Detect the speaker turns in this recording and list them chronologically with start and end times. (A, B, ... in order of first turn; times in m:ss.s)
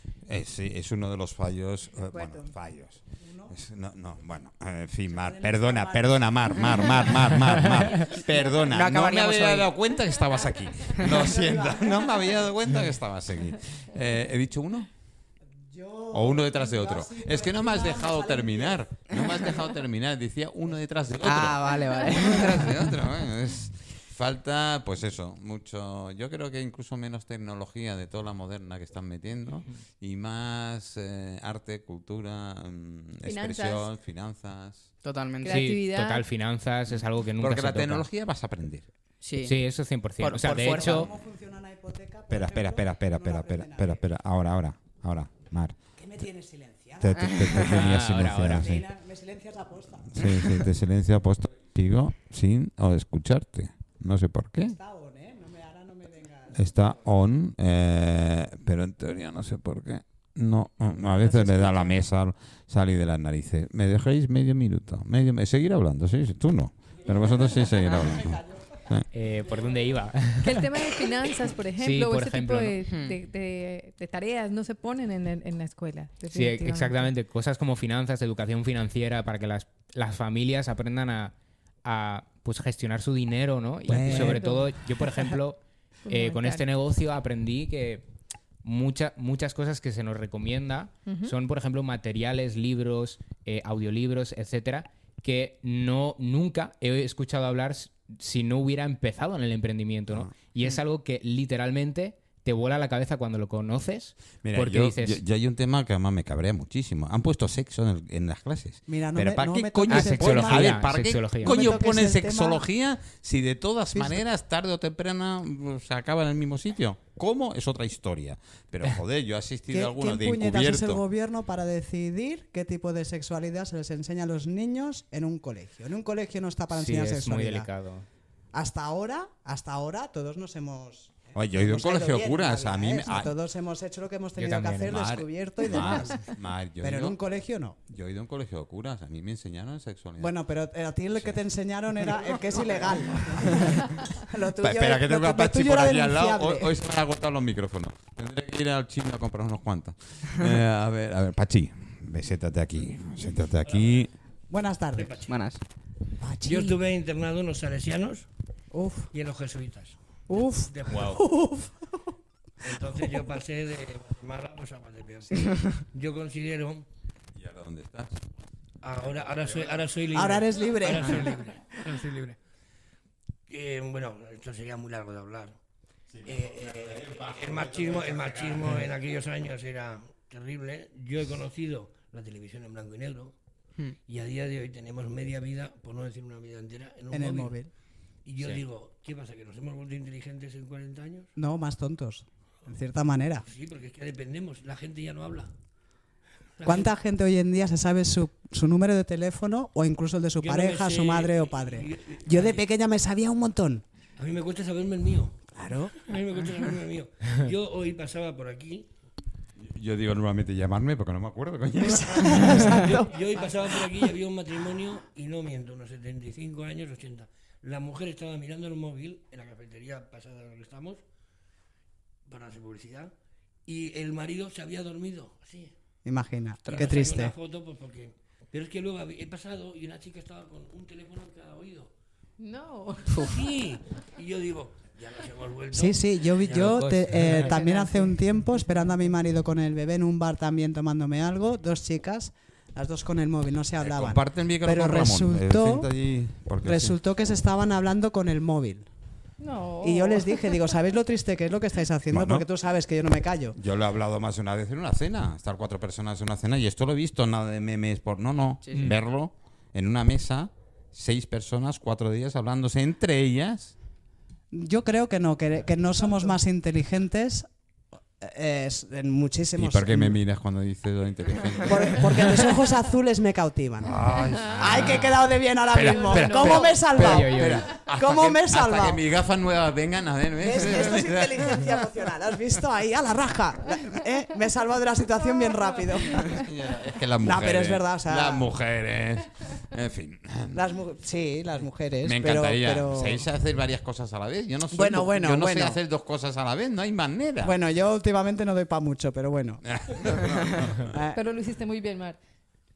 0:00.3-0:14.9 A
0:02.1-0:02.5 B
0:03.2-0:03.5 B
0:05.1-0:07.3 B
0:08.7-0:09.7 C
0:11.1-0:12.4 B
0:15.7-0:19.5 B
0:16.1-0:34.9 A
0:21.2-0:22.8 C
0:33.2-0:33.9 D
0:35.0-0:35.7 C
0:35.4-0:36.3 D
0:35.5-0:38.1 E
0:37.4-0:38.9 A
0:39.2-0:39.6 C
0:39.4-0:41.1 E
0:40.2-0:41.1 C
0:40.6-0:44.0 B
0:42.3-0:45.8 A
0:46.0-0:50.3 B
0:47.0-0:48.8 A
0:47.6-0:48.7 E
0:50.1-0:54.8 A
0:54.6-0:56.7 B
0:56.5-1:09.1 A
1:01.6-1:01.9 D
1:09.1-1:10.7 E
1:10.4-1:17.1 D
1:11.8-1:12.8 E
1:12.9-1:13.2 C
1:16.3-1:21.3 E
1:21.8-1:28.0 E
1:23.9-1:24.5 B
1:23.9-1:25.3 D
1:26.1-1:26.6 D
1:28.6-1:45.2 E
1:31.1-1:31.3 D
1:44.4-2:01.0 A
1:48.9-1:52.6 B
1:49.9-1:51.8 E
1:53.9-1:54.2 B
1:59.7-2:07.7 B
2:06.7-2:08.1 E
2:08.5-2:16.2 B
2:11.4-2:13.3 A
2:14.4-2:15.0 E
2:14.9-2:17.2 A
2:16.8-2:17.8 B
2:17.9-2:20.4 A
2:20.2-2:26.7 B
2:23.2-2:34.1 A
2:33.6-2:34.0 F
2:34.5-2:35.2 B
2:35.0-2:35.4 F
2:35.3-2:35.6 C
2:36.2-2:36.8 B
2:36.4-2:38.3 F
2:38.7-2:39.1 B
2:39.1-2:41.2 F
2:40.3-2:42.0 B
2:40.9-2:41.2 E
2:42.6-2:46.9 F
2:47.4-2:48.2 A
2:48.8-2:52.4 F
2:50.1-2:52.1 B
2:53.5-2:55.6 F
2:56.1-2:58.8 A
2:56.2-3:03.3 F
3:04.1-3:07.6 F
3:07.1-3:07.7 B
3:08.2-3:11.3 F
3:11.4-3:13.5 B
3:13.5-3:15.5 F
3:16.6-3:16.9 F
3:16.6-3:23.8 B
3:20.4-3:22.6 F
3:24.2-3:25.4 F
3:25.5-3:26.0 B
3:26.0-3:28.9 F
3:29.6-3:32.9 A
3:31.8-3:34.1 B
3:32.8-3:41.0 F
3:42.3-3:43.1 F
3:43.7-3:45.7 F
3:46.0-3:47.4 B
3:46.7-3:51.9 F
3:52.4-3:53.3 D
3:53.1-3:56.9 F
3:55.7-4:05.9 B
3:56.6-3:57.5 E
3:57.3-3:58.2 D
4:03.8-4:07.0 A
4:06.6-4:08.9 B
4:09.4-4:10.6 D
4:09.8-4:13.6 B
4:12.1-4:12.4 A
4:13.6-4:23.8 A
4:18.6-4:18.9 C
4:24.5-4:27.5 B
4:28.2-4:30.2 B
4:29.6-4:32.5 A
4:31.6-4:34.0 B
4:33.8-4:41.7 A
4:34.5-4:39.0 B
4:35.8-4:36.7 D
4:36.9-4:37.6 E
4:40.4-4:46.4 B
4:46.3-4:50.6 A
4:47.2-4:48.5 B
4:50.5-4:53.3 B
4:52.0-4:57.5 A
4:54.7-4:55.8 B
4:57.4-5:00.3 B
4:59.7-5:00.9 A
5:00.8-5:01.2 B
5:01.1-5:02.2 D